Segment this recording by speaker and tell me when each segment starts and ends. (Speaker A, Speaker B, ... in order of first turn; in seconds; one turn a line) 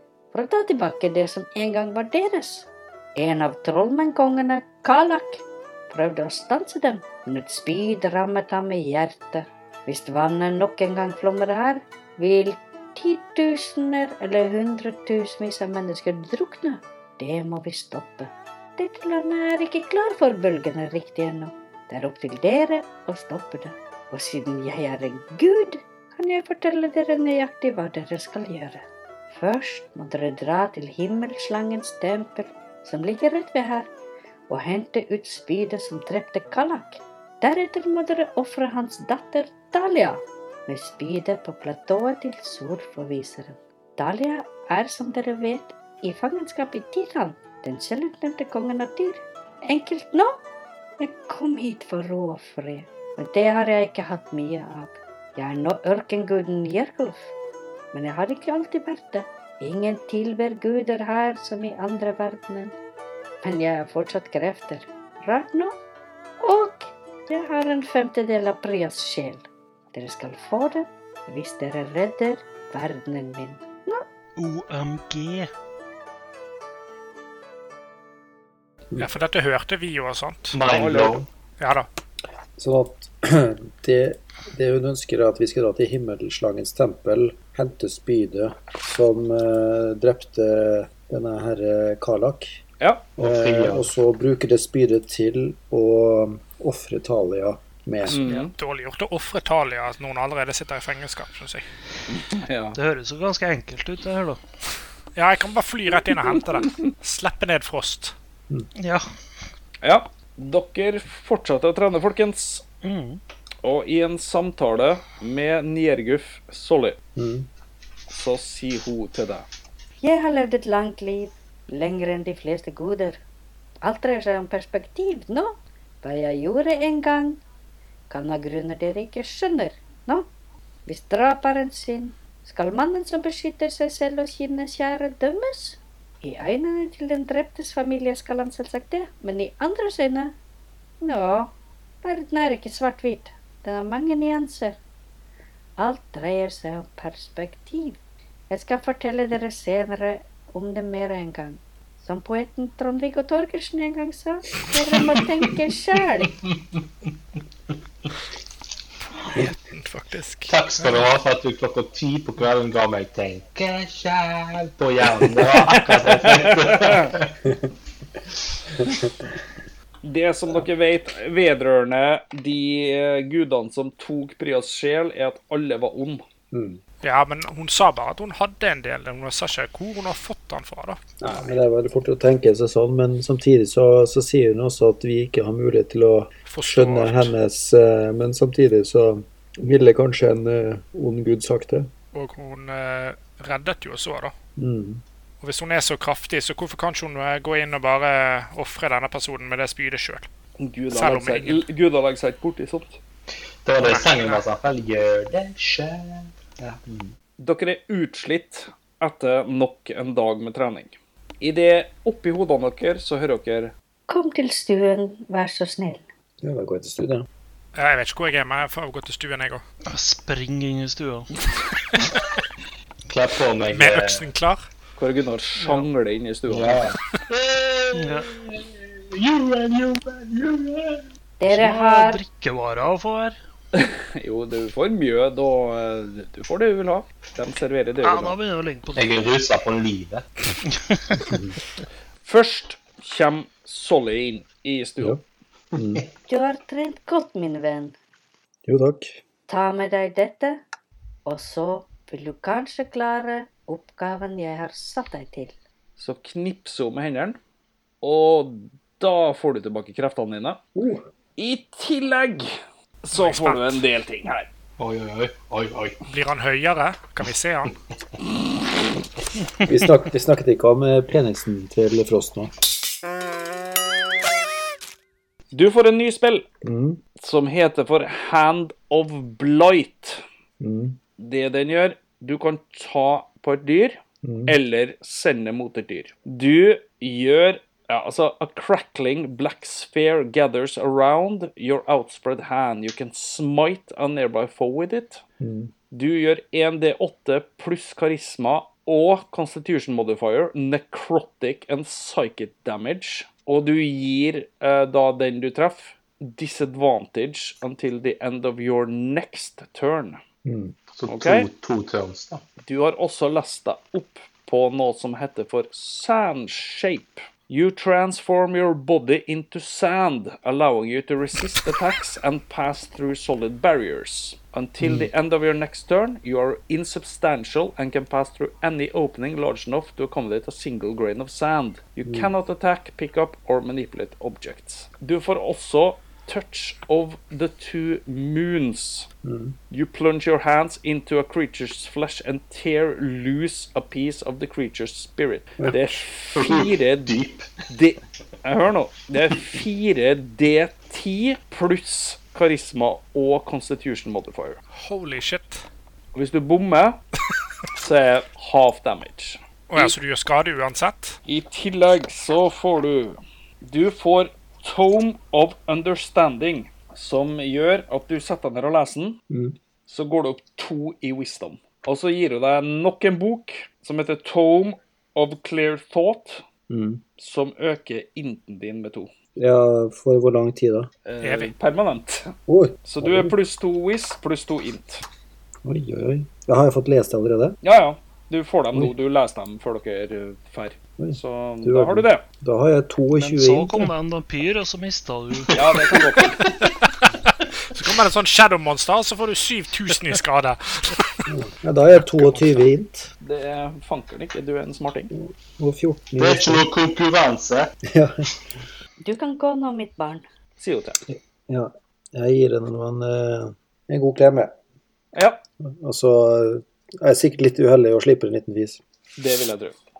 Speaker A: 0.3-33.9
Speaker A: 34.5-50.4
Speaker A: 51.0-57.3
Speaker A: 57.9-62.8
Speaker A: 63.4-65.7
Speaker A: 66.4-74.0
Speaker B: 74.4-75.5
Speaker C: 79.0-80.6
Speaker D: 80.5-81.2
Speaker E: 80.6-81.2
Speaker C: 81.6-81.9
Speaker F: 82.6-92.6
Speaker E: 92.8-93.1
Speaker F: 93.2-98.2
Speaker D: 93.2-93.8
Speaker E: 98.1-98.5
Speaker C: 98.2-101.7
Speaker E: 102.1-102.8
Speaker B: 102.7-104.4
Speaker C: 105.2-108.1
Speaker B: 108.8-109.1
Speaker E: 109.8-112.6
Speaker B: 112.8-113.2
Speaker E: 113.6-117.0
Speaker F: 117.2-117.5
Speaker E: 118.1-119.5
Speaker A: 120.0-123.2
Speaker A: 123.8-127.4
Speaker A: 128.1-130.3
Speaker A: 130.9-140.3
Speaker A: 141.0-144.8
Speaker A: 145.8-148.0
Speaker A: 148.5-156.3
Speaker C: 159.3-161.0
Speaker D: 160.5-167.3
Speaker E: 165.7-167.1
Speaker E: 170.0-176.2
Speaker F: 176.5-176.8
Speaker C: 177.0-181.0
Speaker F: 181.2-191.9
Speaker C: 186.5-187.3
Speaker C: 192.1-194.3
Speaker F: 194.6-195.0
Speaker C: 195.4-200.3
Speaker E: 200.6-203.0
Speaker C: 200.9-201.6
Speaker D: 203.6-207.1
Speaker C: 203.8-204.4
Speaker E: 207.4-213.7
Speaker A: 214.1-216.0
Speaker F: 216.4-217.3
Speaker C: 217.7-219.6
Speaker B: 219.9-221.3
Speaker D: 223.1-224.2
Speaker C: 223.7-224.6
Speaker E: 225.0-226.9
Speaker D: 226.5-231.1
Speaker B: 227.9-228.3
Speaker A: 231.4-232.2
Speaker B: 231.5-233.4
Speaker E: 233.7-238.3
Speaker B: 238.0-239.2
Speaker D: 238.9-240.2
Speaker B: 240.7-241.2
Speaker F: 241.2-241.6
Speaker E: 242.2-245.2
Speaker F: 245.7-246.0
Speaker A: 246.3-247.9
Speaker F: 248.7-249.2
Speaker A: 249.5-250.6
Speaker A: 251.2-255.5
Speaker E: 256.0-257.4
Speaker E: 258.0-260.6
Speaker F: 260.7-261.0
Speaker E: 261.4-264.5
Speaker C: 263.1-263.8
Speaker D: 264.8-266.0
Speaker C: 266.1-267.7
Speaker F: 269.6-272.5
Speaker E: 275.5-276.4
Speaker F: 276.6-277.0
Speaker E: 277.2-280.2
Speaker F: 280.6-281.0
Speaker E: 281.2-295.2
Speaker F: 284.2-284.6
Speaker F: 295.4-295.7
Speaker E: 295.9-310.2
Speaker F: 310.4-310.7
Speaker D: 310.9-312.4
Speaker E: 311.1-311.5
Speaker E: 312.6-339.1
Speaker F: 324.8-325.1
Speaker F: 339.2-339.6
Speaker E: 339.7-347.1
Speaker D: 346.3-347.5
Speaker E: 347.7-354.6
Speaker C: 354.7-355.6
Speaker E: 356.1-357.0
Speaker E: 357.7-359.9
Speaker C: 359.7-361.2
Speaker E: 361.2-369.2
Speaker F: 369.3-369.6
Speaker E: 369.9-376.4
Speaker F: 376.7-377.0
Speaker E: 377.2-379.1
Speaker F: 379.4-380.9
Speaker E: 381.1-385.0
Speaker C: 381.2-381.5
Speaker F: 382.5-383.3
Speaker F: 385.6-387.6
Speaker E: 387.6-392.2
Speaker F: 391.0-393.9
Speaker B: 393.1-395.6
Speaker E: 395.5-396.4
Speaker C: 397.7-401.2
Speaker F: 401.3-403.1
Speaker C: 402.1-402.5
Speaker E: 403.2-405.1
Speaker F: 405.1-406.6
Speaker D: 406.2-407.7
Speaker F: 407.9-408.3
Speaker A: 409.0-410.3
Speaker E: 410.6-411.0
Speaker F: 411.1-414.5
Speaker E: 415.1-415.4
Speaker F: 415.6-418.8
Speaker E: 419.2-419.8